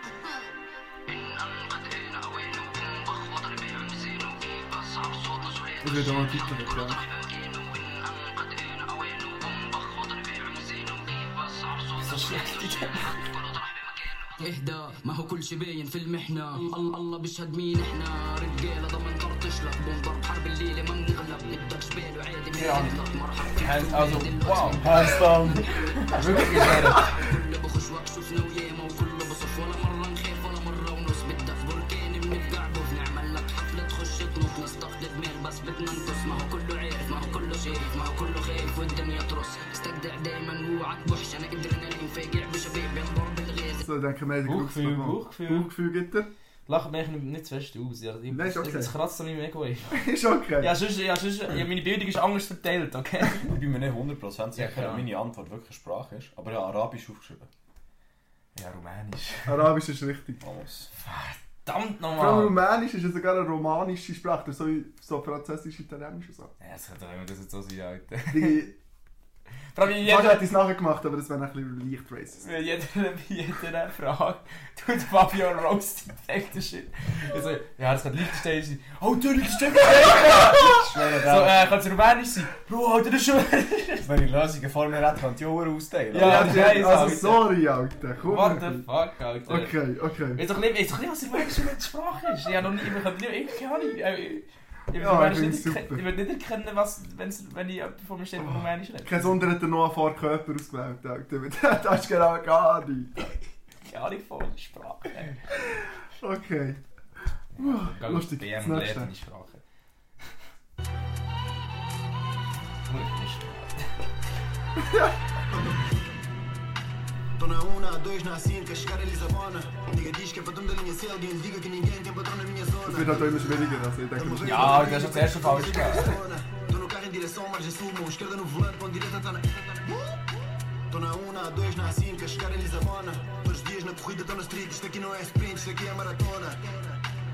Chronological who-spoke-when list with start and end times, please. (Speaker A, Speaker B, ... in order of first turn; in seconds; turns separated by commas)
Speaker A: 1.1-43.8, Speaker B: 5.8-7.0, Speaker C: 12.0-13.2, Speaker C: 22.5-23.0, Speaker C: 23.6-24.9, Speaker D: 24.8-26.2, Speaker C: 26.1-27.1, Speaker B: 43.8-46.3, Speaker C: 44.5-45.7, Speaker C: 46.7-50.1, Speaker B: 48.3-48.9, Speaker B: 49.9-50.7, Speaker C: 50.6-53.5, Speaker D: 53.4-57.5, Speaker C: 54.5-55.1, Speaker C: 58.5-59.7, Speaker B: 59.5-60.4, Speaker D: 60.4-60.9, Speaker C: 61.0-62.6, Speaker B: 62.2-66.5, Speaker C: 66.6-68.6, Speaker B: 68.3-68.7, Speaker C: 69.8-70.5, Speaker B: 69.9-72.5, Speaker C: 72.4-84.1, Speaker D: 80.2-81.6, Speaker D: 84.0-87.0, Speaker C: 86.1-87.5, Speaker B: 86.2-88.8, Speaker C: 88.2-89.7, Speaker B: 89.5-90.4, Speaker C: 90.4-99.4, Speaker B: 95.0-96.0, Speaker B: 98.4-103.3, Speaker C: 103.8-105.5, Speaker B: 106.2-106.8, Speaker C: 107.5-109.6, Speaker B: 107.6-109.1, Speaker C: 112.8-113.9, Speaker B: 114.8-115.2, Speaker E: 117.4-130.2, Speaker B: 122.9-124.9, Speaker C: 124.4-126.1, Speaker E: 130.9-137.0